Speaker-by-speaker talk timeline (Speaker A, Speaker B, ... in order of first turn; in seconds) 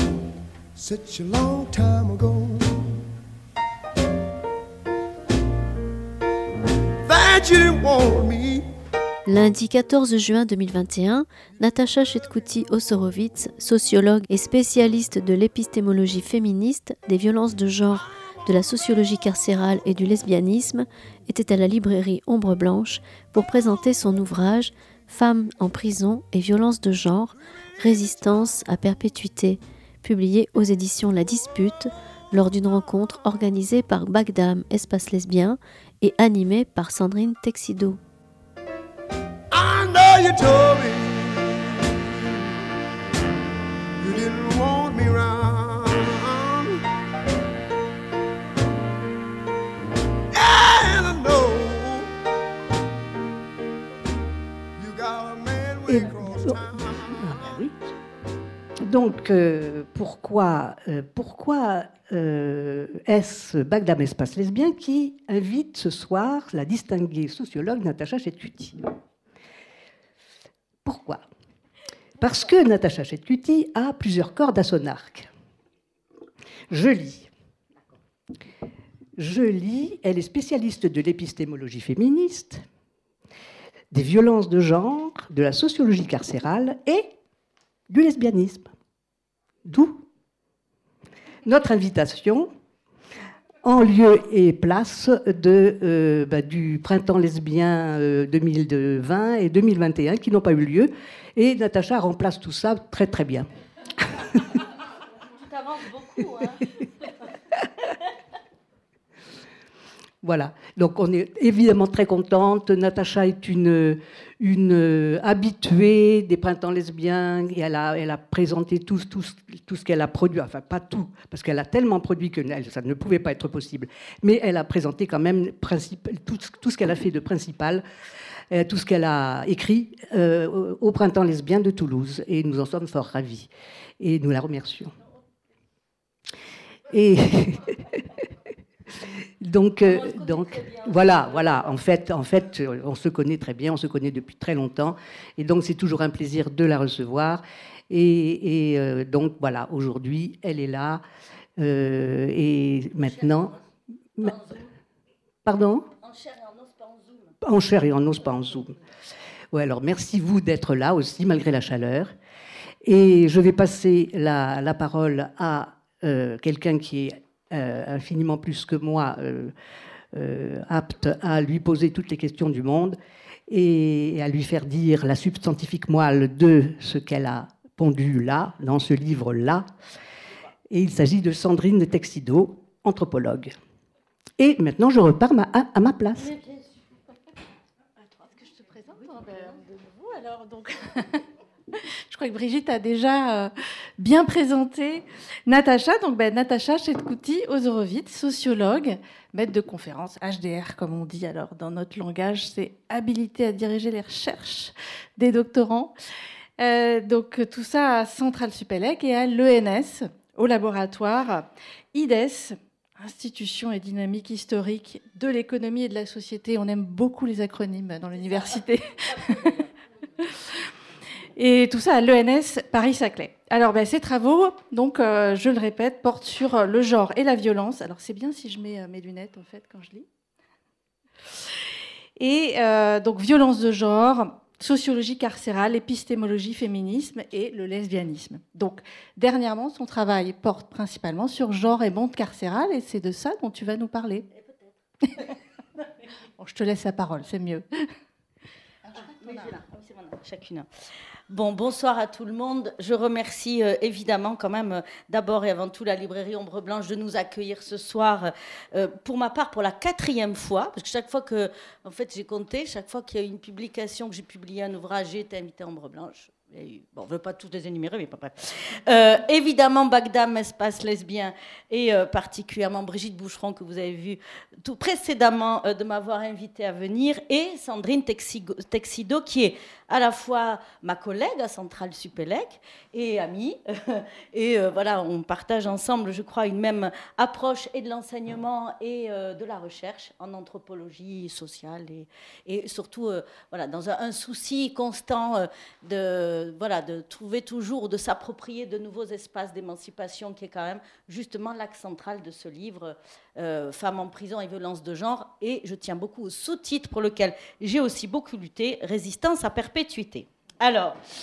Speaker A: 0.8-3.0, 7.0-8.7, 39.5-42.0, 44.0-46.8, 50.3-52.1, 54.8-57.6
Speaker B: 9.3-38.0
Speaker C: 55.9-57.8, 58.9-68.8, 70.8-71.2, 72.2-75.3, 76.7-77.3, 79.2-82.6, 83.9-87.1, 87.9-88.7, 89.7-90.0, 91.5-92.5, 93.6-103.5, 104.0-104.4, 110.2-127.8, 128.5-133.5, 134.0-135.0, 136.9-138.0, 139.4-151.0, 151.6-153.6, 155.4-155.9, 157.4-158.8, 159.5-162.1, 162.8-169.5, 170.1-179.7, 180.7-183.5, 184.4-186.3
Speaker D: 105.4-106.7, 139.8-141.7, 153.0-153.6, 154.2-154.7, 156.0-157.3, 186.2-186.8, 219.0-219.7, 244.3-245.3, 249.0-250.7, 251.3-311.0
Speaker E: 188.1-205.9, 206.6-219.5, 220.2-220.7, 221.3-230.1, 232.2-244.3, 246.4-247.7, 248.8-249.6